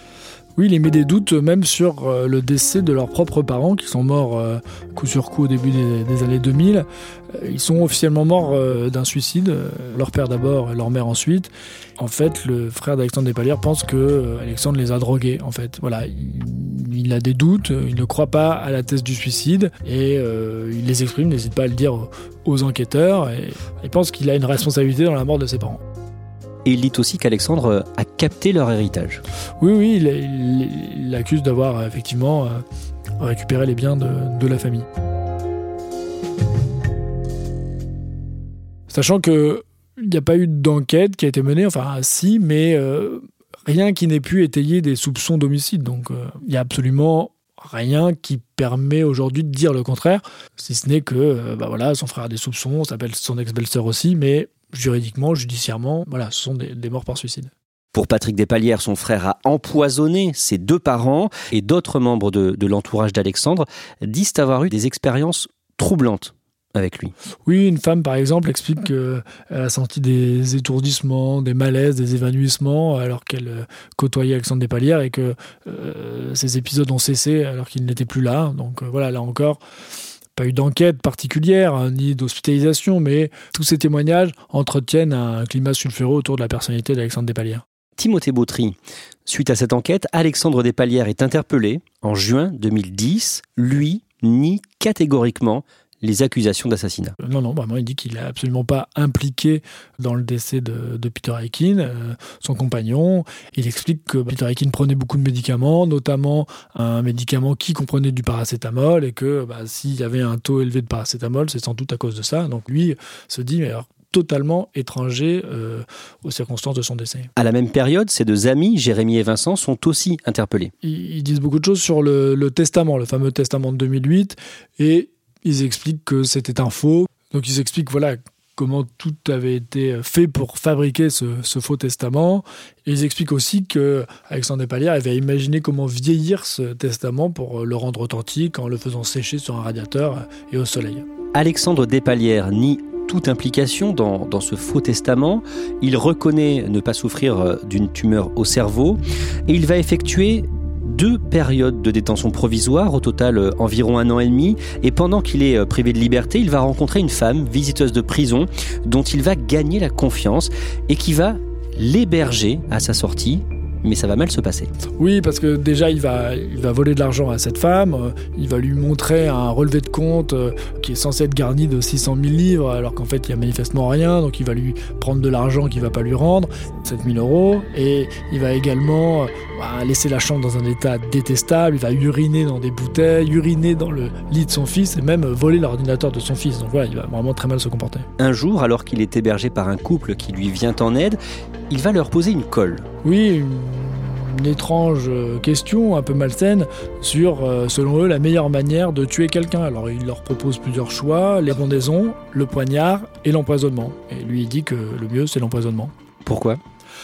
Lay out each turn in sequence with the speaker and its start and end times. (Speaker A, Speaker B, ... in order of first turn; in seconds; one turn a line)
Speaker A: 0.6-25.8
Speaker B: 26.6-29.2
Speaker A: 29.6-32.6
Speaker A: 33.2-34.9
Speaker A: 38.9-57.5
Speaker B: 57.9-67.1
Speaker A: 67.5-79.6
Speaker A: 80.4-87.6
Speaker B: 88.0-97.2
Speaker A: 97.2-117.3
Speaker B: 117.4-120.7
Speaker A: 120.8-141.1
Speaker B: 141.3-164.7
Speaker A: 165.0-188.1
Speaker B: 188.2-191.2
Speaker B: 191.7-192.9
Speaker A: 193.0-205.9
Speaker B: 206.2-206.6